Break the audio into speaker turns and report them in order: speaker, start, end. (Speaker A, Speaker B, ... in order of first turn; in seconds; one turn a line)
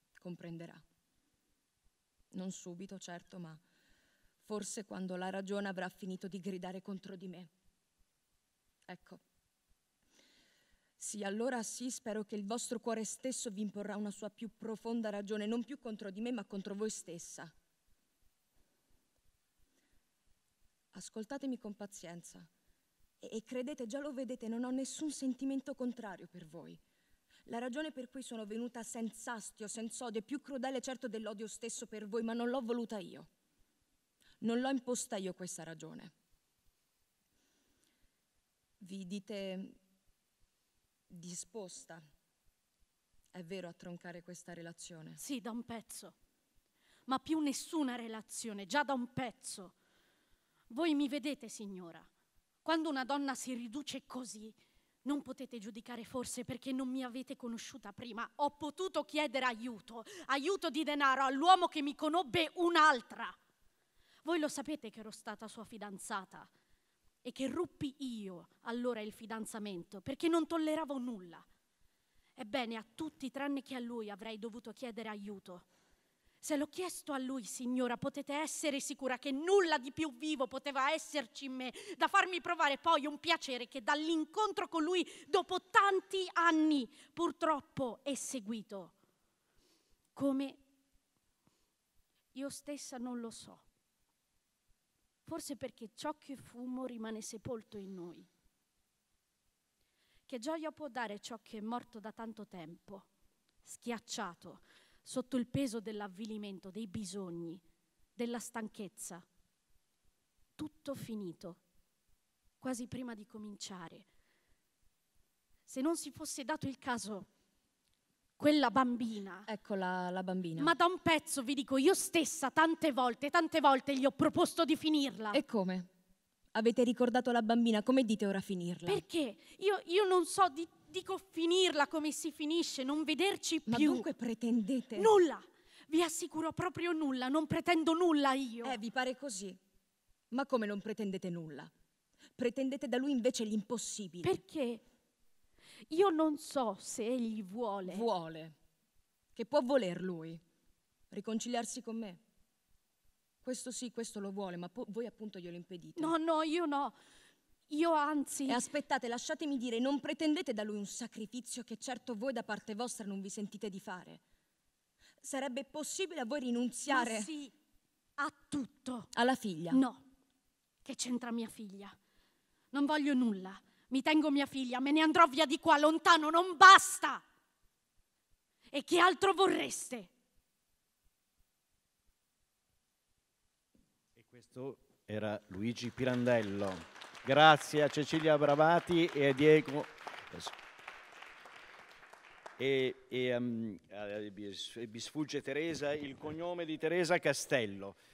Speaker A: 0.2-0.8
Speaker A: 2.3-3.6
Speaker A: 4.4-7.5
Speaker A: 8.9-9.2
Speaker A: 11.0-17.5
Speaker A: 20.9-22.5
Speaker A: 23.2-26.8
Speaker A: 27.4-33.3
Speaker A: 34.4-36.1
Speaker A: 38.8-39.8
Speaker A: 41.1-42.0
Speaker A: 43.3-45.2
Speaker B: 45.2-46.1
Speaker B: 47.1-49.7
Speaker B: 50.7-52.1
Speaker B: 52.6-63.4
Speaker B: 64.2-66.5
Speaker B: 67.2-71.4
Speaker B: 72.3-75.6
Speaker B: 76.4-88.9
Speaker B: 90.1-90.6
Speaker B: 92.3-93.6
Speaker B: 95.2-98.3
Speaker B: 100.3-103.1
Speaker B: 103.6-107.6
Speaker B: 108.2-109.2
Speaker B: 110.6-111.6
Speaker B: 112.6-114.0
Speaker B: 115.7-117.3
Speaker B: 118.4-119.5
Speaker A: 119.5-120.7
Speaker B: 120.6-125.4
Speaker A: 125.3-125.9
Speaker A: 126.5-129.0
Speaker B: 128.9-134.1
Speaker A: 133.7-135.1
Speaker B: 134.9-138.8
Speaker A: 138.6-139.6
Speaker A: 140.3-141.7
Speaker A: 142.4-144.4
Speaker B: 144.2-144.8
Speaker B: 145.9-148.1
Speaker A: 147.8-148.5
Speaker A: 149.3-150.4
Speaker A: 151.1-152.2
Speaker A: 153.4-156.1
Speaker B: 155.9-156.9
Speaker B: 157.7-158.7
Speaker A: 158.5-164.2
Speaker A: 165.2-167.3
Speaker B: 166.9-167.5
Speaker B: 168.2-169.1
Speaker A: 169.1-169.8
Speaker B: 169.7-170.0
Speaker B: 170.8-171.9
Speaker B: 172.7-177.2
Speaker B: 178.7-180.1
Speaker C: 184.2-190.5
Speaker C: 192.6-198.0